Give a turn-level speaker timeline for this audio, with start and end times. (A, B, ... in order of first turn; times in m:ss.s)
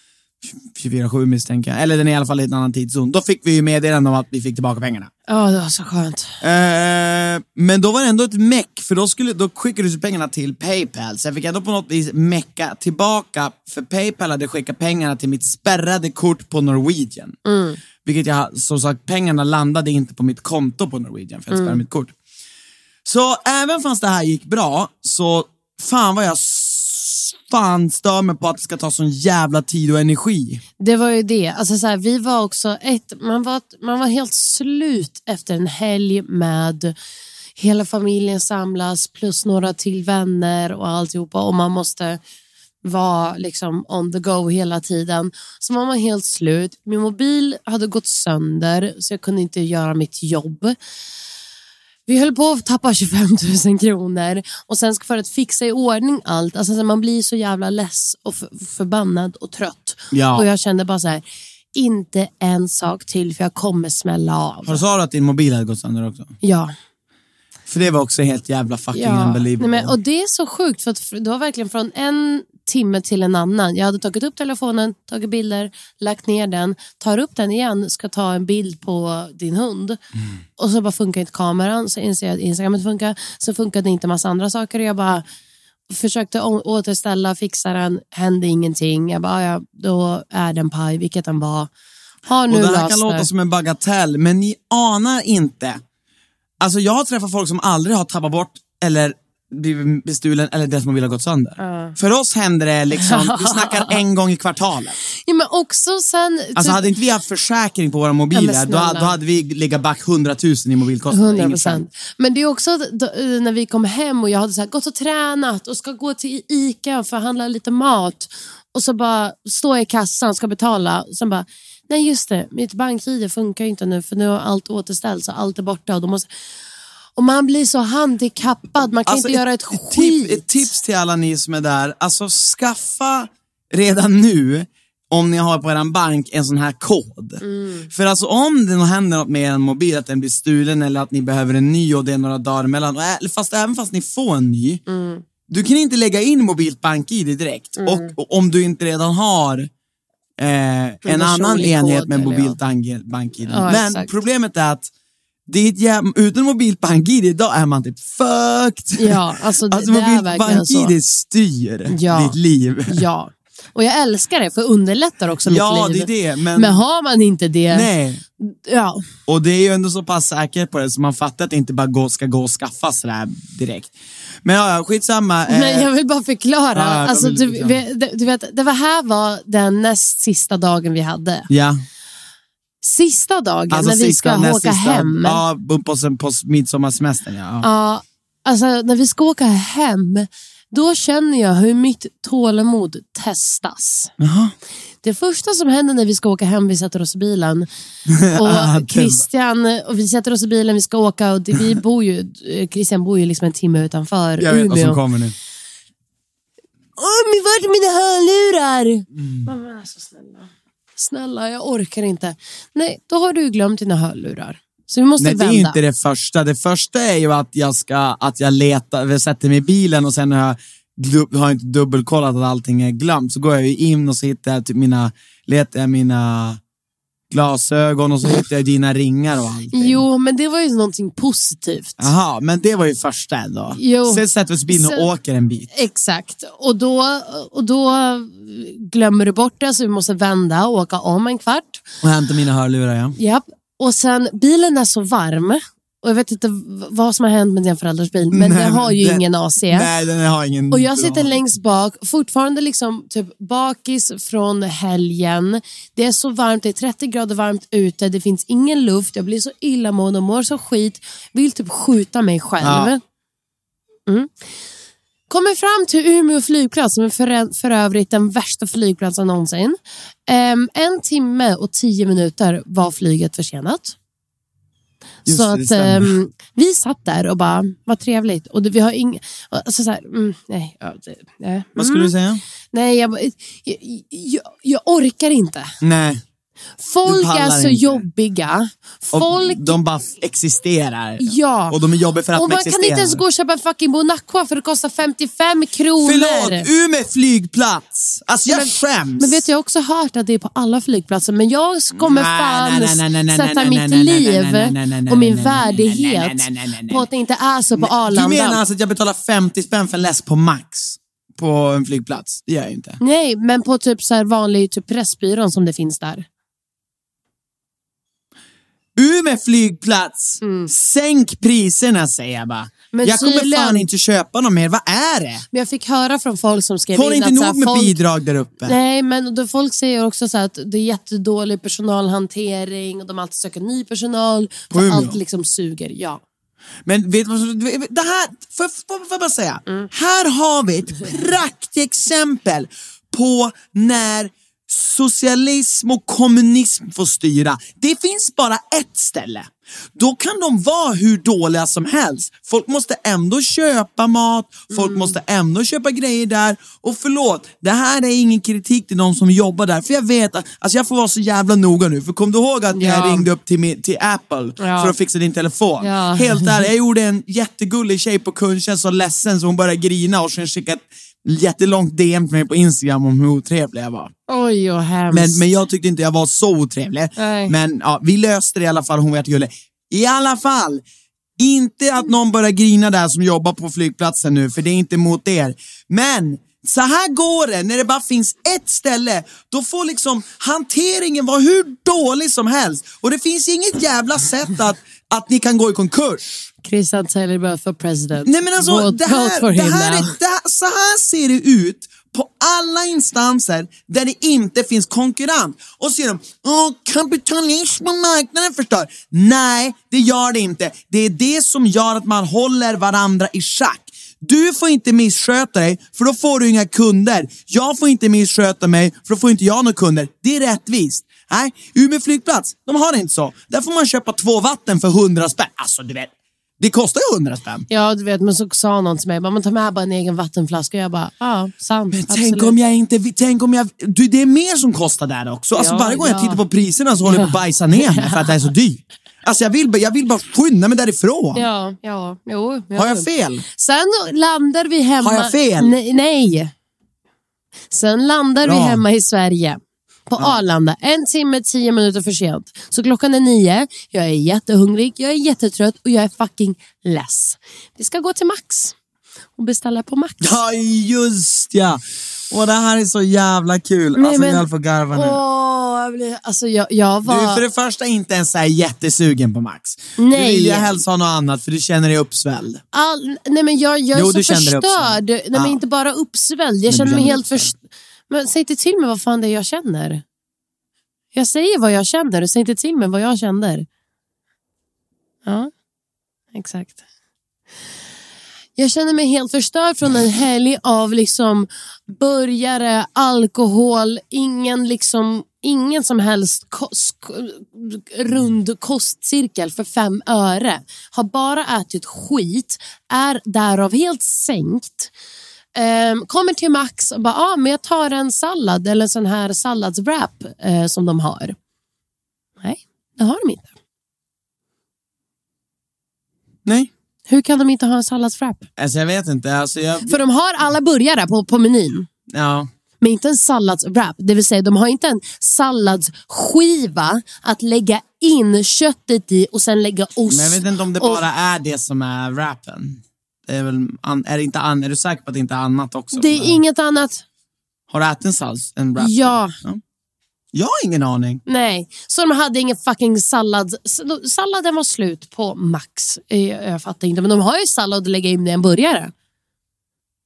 0:00.4-0:05.1 A
0:05.3-0:06.3 B
0:06.4-0:17.4 A
0:17.4-0:17.8 B
0:18.0-0:22.1 A
0:21.5-0:21.8 B
0:23.0-0:30.6 A
0:30.8-0:36.9 B
0:37.6-0:42.2 B
0:42.8-0:50.8 B
0:52.1-1:01.2 B
1:00.1-1:00.5 A
1:01.7-1:04.8 B
1:04.6-1:06.3 A
1:06.4-1:06.7 B
1:07.7-1:10.0 A
1:08.9-1:20.0 B
1:20.6-1:25.2 B
1:25.9-1:31.7 B
1:32.2-1:33.3 B
1:32.5-1:35.8 A
1:36.6-1:45.0 A
1:41.6-1:42.0 B
1:42.9-1:44.0 B
1:45.1-1:46.9 B
1:46.6-1:51.8 A
1:48.3-1:49.1 B
1:51.1-2:06.3 B
2:07.2-2:10.7 B
2:09.0-2:24.8 A
2:17.4-2:17.9 B
2:24.9-2:25.2 B
2:25.5-2:29.7 A
2:27.8-2:28.1 B
2:30.4-2:34.9 A
2:31.0-2:32.6 B
2:33.4-2:34.1 B
2:35.5-2:43.0 A
2:39.0-2:40.9 B
2:41.9-2:42.4 B
2:42.9-2:47.9 B
2:45.4-2:46.8 A
2:47.7-2:48.2 A
2:48.4-2:49.0 B
2:49.3-2:53.9 A
2:54.4-2:55.9 A
2:55.5-3:01.5 B
2:56.7-2:57.8 A
3:01.5-3:01.8 A
3:02.8-3:05.4 B
3:03.7-3:07.7 A
3:07.6-3:14.1 B
3:14.2-3:14.5 A
3:15.0-3:17.7 B
3:18.1-3:19.2 A
3:18.3-3:25.0 B
3:24.4-3:25.3 A
3:27.0-3:35.8 B
3:29.1-3:29.5 A
3:35.2-3:46.6 A
3:47.3-3:50.0 A
3:49.7-3:52.1 B
3:52.0-3:55.7 A
3:53.8-3:55.1 B
3:55.7-4:01.8 B
4:02.0-4:03.2 A
4:03.2-4:09.9 B
4:08.3-4:11.4 A
4:10.7-4:23.0 B
4:22.6-4:22.9 A
4:25.3-4:34.0 B
4:35.2-4:36.1 A
4:35.2-4:42.1 B
4:41.8-4:42.4 A
4:42.7-4:45.7 B
4:45.8-4:46.2 A
4:46.8-4:49.8 B
4:47.0-4:48.0 A
4:49.1-4:53.2 A
4:51.2-4:51.8 B
4:52.3-4:56.7 B
4:56.0-4:59.5 A
4:58.4-5:08.6 B
5:01.9-5:07.1 A
5:07.8-5:13.0 A
5:13.0-5:16.3 B
5:19.0-5:25.4 A
5:20.4-5:20.7 B
5:22.9-5:23.9 B
5:25.5-5:28.0 B
5:26.9-5:28.8 A
5:28.6-5:36.2 B
5:34.7-5:35.2 A
5:36.8-6:14.1 A
5:54.7-5:55.2 B
6:02.7-6:03.3 B
6:04.6-6:04.9 B
6:05.8-6:06.6 B
6:14.3-6:15.4 B
6:15.1-6:20.8 A
6:17.2-6:17.5 B
6:21.4-6:36.2 A
6:36.6-6:40.2 B
6:38.2-7:07.6 A
7:07.7-7:12.5 B
7:11.9-7:21.4 A
7:15.5-7:16.4 B
7:17.0-7:18.5 B
7:21.3-7:26.5 B
7:22.7-7:23.4 A
7:25.0-7:25.7 A
7:27.7-7:38.7 B
7:28.4-7:28.8 A
7:39.4-7:40.3 B
7:40.2-7:45.2 A
7:44.0-7:47.4 B
7:47.0-7:52.6 A
7:50.0-7:50.8 B
7:52.7-7:57.6 B
7:53.9-7:55.6 A
7:56.7-7:57.5 A
7:58.1-8:00.0 B
8:01.1-8:03.7 B
8:06.3-8:06.8 B
8:08.6-8:24.9 B
8:25.6-8:31.4 B
8:32.4-8:33.5 B
8:37.1-8:38.5 B
8:38.6-8:40.0 A
8:39.8-8:41.9 B
8:42.1-8:42.5 A
8:42.8-8:51.0 B
8:50.1-8:56.4 A
8:55.9-8:57.0 B
8:57.7-8:59.6 A
8:58.8-8:59.3 B
9:00.3-9:01.2 A
9:01.2-9:08.9 B